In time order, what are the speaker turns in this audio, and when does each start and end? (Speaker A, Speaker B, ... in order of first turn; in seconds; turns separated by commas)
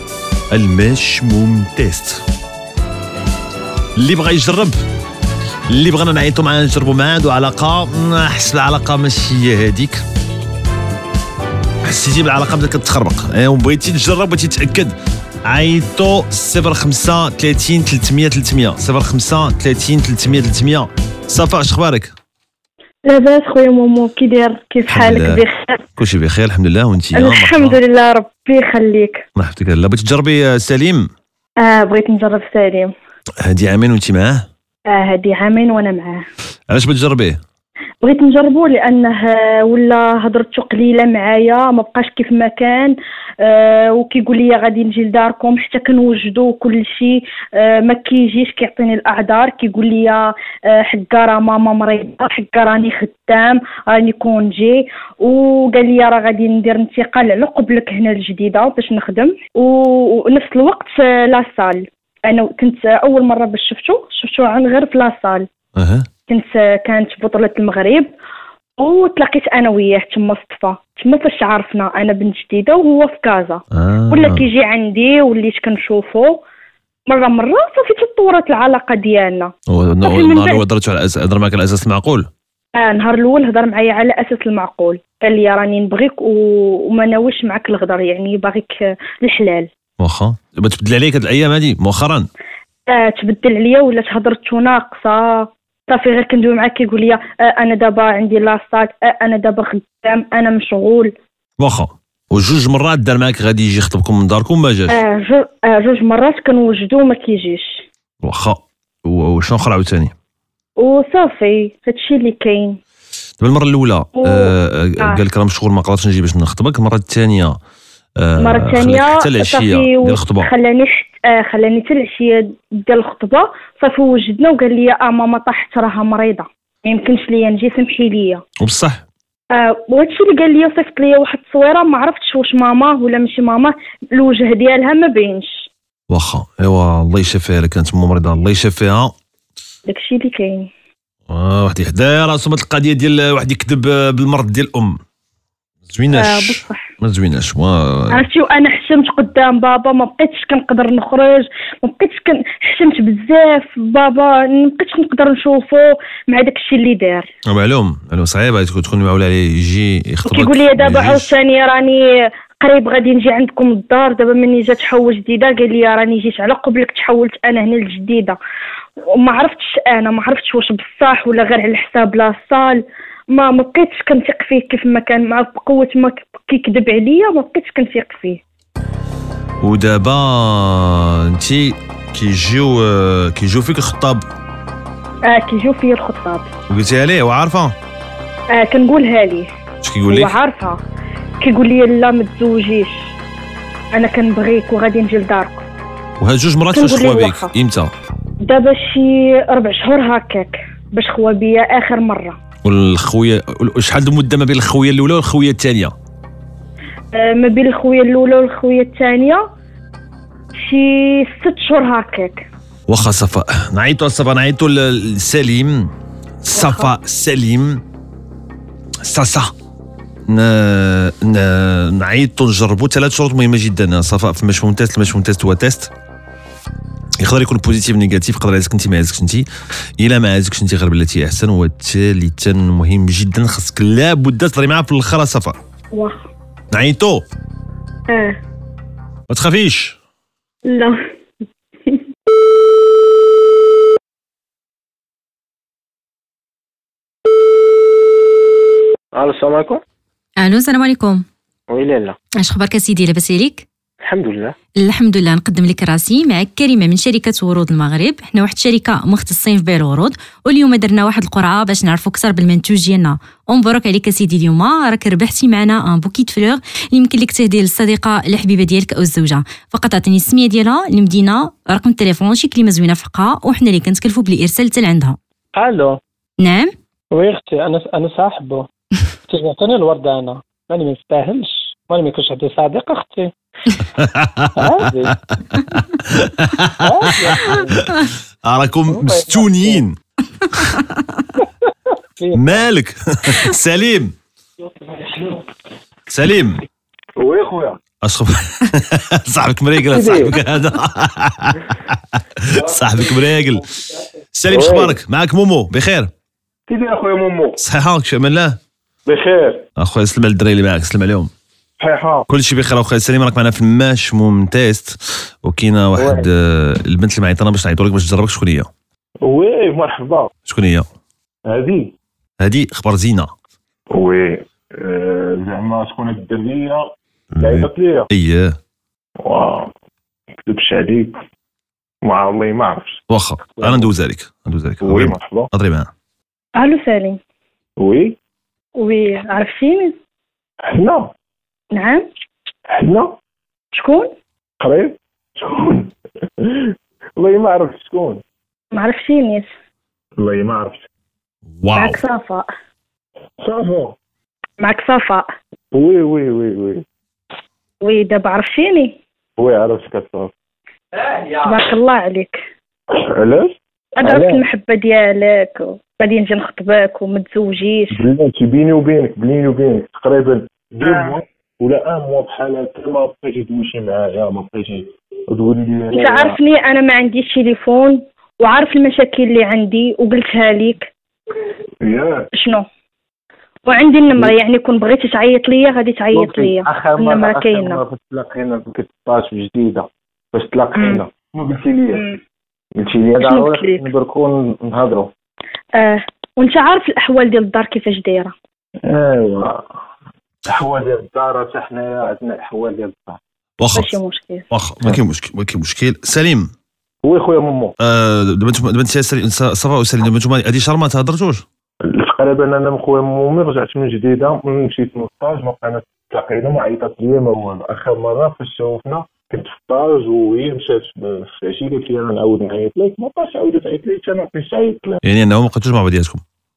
Speaker A: 0.5-2.2, Speaker A: 4.0-4.8, Speaker A: 5.7-10.0, Speaker A: 11.8-22.1, Speaker B: 23.1-25.8, Speaker A: 24.9-25.4, Speaker A: 26.0-27.8, Speaker B: 27.1-29.2, Speaker A: 29.4-31.1, Speaker B: 31.6-32.9, Speaker A: 33.4-34.4, Speaker B: 34.9-36.2, Speaker A: 36.7-37.4, Speaker B: 38.0-65.4, Speaker A: 65.8-66.1, Speaker B: 66.3-68.1, Speaker B: 68.8-76.4, Speaker A: 73.7-74.4, Speaker B: 77.1-79.5, Speaker A: 79.7-82.3, Speaker B: 80.0-80.6, Speaker B: 82.8-89.7, Speaker A: 90.0-92.3, Speaker B: 92.9-101.1, Speaker A: 101.6-105.0, Speaker B: 104.9-107.8, Speaker A: 108.2-110.1, Speaker B: 110.8-112.8, Speaker A: 113.4-117.6, Speaker B: 114.2-115.2, Speaker A: 118.2-120.5, Speaker B: 118.4-128.4, Speaker A: 128.6-129.0, Speaker B: 129.6-135.7, Speaker A: 136.1-139.1, Speaker B: 139.9-140.7, Speaker A: 141.3-145.0, Speaker A: 145.9-148.2, Speaker B: 146.1-146.8, Speaker B: 148.1-157.3, Speaker A: 157.5-161.3, Speaker B: 160.2-162.0, Speaker B: 162.6-168.4, Speaker B: 169.2-172.8, Speaker B: 173.3-178.4, Speaker A: 179.6-184.2, Speaker B: 185.3-186.5, Speaker A: 186.7-187.7, Speaker B: 188.5-189.5, Speaker A: 189.8-190.4, Speaker B: 190.1-190.8, Speaker B: 191.4-193.1, Speaker B: 193.9-195.7, Speaker A: 196.2-197.9, Speaker B: 196.7-197.5, Speaker B: 198.4-202.4, Speaker A: 202.6-205.9, Speaker B: 207.2-209.4, Speaker B: 210.6-212.4, Speaker A: 212.9-215.9, Speaker A: 216.4-217.8, Speaker B: 216.5-216.9, Speaker A: 219.0-219.5, Speaker A: 220.3-225.9, Speaker A: 227.2-229.5, Speaker A: 230.0-235.6, Speaker B: 235.9-236.2, Speaker A: 236.7-237.2, Speaker B: 238.1-238.4, Speaker A: 239.3-240.0, Speaker B: 240.7-240.9, Speaker C: 249.2-249.8, Speaker D: 250.4-251.2, Speaker D: 252.4-253.6, Speaker D: 254.8-275.2, Speaker C: 275.5-276.0, Speaker D: 276.4-276.7, Speaker C: 277.1-278.7, Speaker C: 279.3-283.3, Speaker A: 283.8-290.0, Speaker C: 284.6-285.1, Speaker C: 286.8-287.7, Speaker C: 288.9-289.8, Speaker C: 292.2-292.7, Speaker A: 292.3-294.1, Speaker C: 294.6-295.4, Speaker A: 296.1-296.6, Speaker E: 297.2-297.8, Speaker A: 298.0-303.7, Speaker C: 299.9-300.3, Speaker A: 304.3-306.1, Speaker E: 304.5-305.0, Speaker E: 306.7-307.6, Speaker A: 307.6-308.6, Speaker E: 309.1-309.6, Speaker A: 309.8-311.3, Speaker E: 311.8-312.3, Speaker A: 312.3-318.7, Speaker E: 315.9-316.3, Speaker E: 319.2-320.3, Speaker A: 320.5-320.9, Speaker E: 321.4-321.9, Speaker A: 322.4-323.3, Speaker E: 323.9-328.1, Speaker A: 327.3-328.6, Speaker E: 329.2-329.7, Speaker E: 330.4-331.2, Speaker E: 332.0-333.0, Speaker A: 333.1-335.9, Speaker E: 333.6-333.9, Speaker E: 334.8-335.5, Speaker B: 336.6-337.2, Speaker E: 337.8-338.1, Speaker B: 338.8-339.9, Speaker E: 340.7-341.1, Speaker B: 341.7-342.0, Speaker E: 342.8-343.2, Speaker B: 343.7-344.1, Speaker E: 344.6-348.2, Speaker B: 348.7-349.5, Speaker E: 350.2-350.8, Speaker A: 351.6-352.0, Speaker B: 351.7-352.4, Speaker E: 353.4-353.9, Speaker B: 354.6-355.2, Speaker E: 355.7-356.8, Speaker B: 357.8-358.9, Speaker E: 359.4-360.3, Speaker B: 361.3-362.4, Speaker E: 363.0-364.4, Speaker B: 364.0-368.0, Speaker E: 367.9-376.4, Speaker B: 370.8-371.1, Speaker B: 375.9-380.9, Speaker E: 381.8-382.2, Speaker B: 382.4-382.6, Speaker B: 383.7-387.8, Speaker E: 386.1-392.0, Speaker B: 390.8-391.0, Speaker E: 392.8-395.1, Speaker B: 393.2-393.8, Speaker B: 395.8-398.3, Speaker E: 398.8-399.6, Speaker E: 400.4-403.2, Speaker A: 403.6-403.9, Speaker B: 403.7-404.4, Speaker A: 404.5-406.5, Speaker E: 407.0-407.7, Speaker A: 407.8-411.4, Speaker E: 411.9-425.0, Speaker A: 425.0-426.2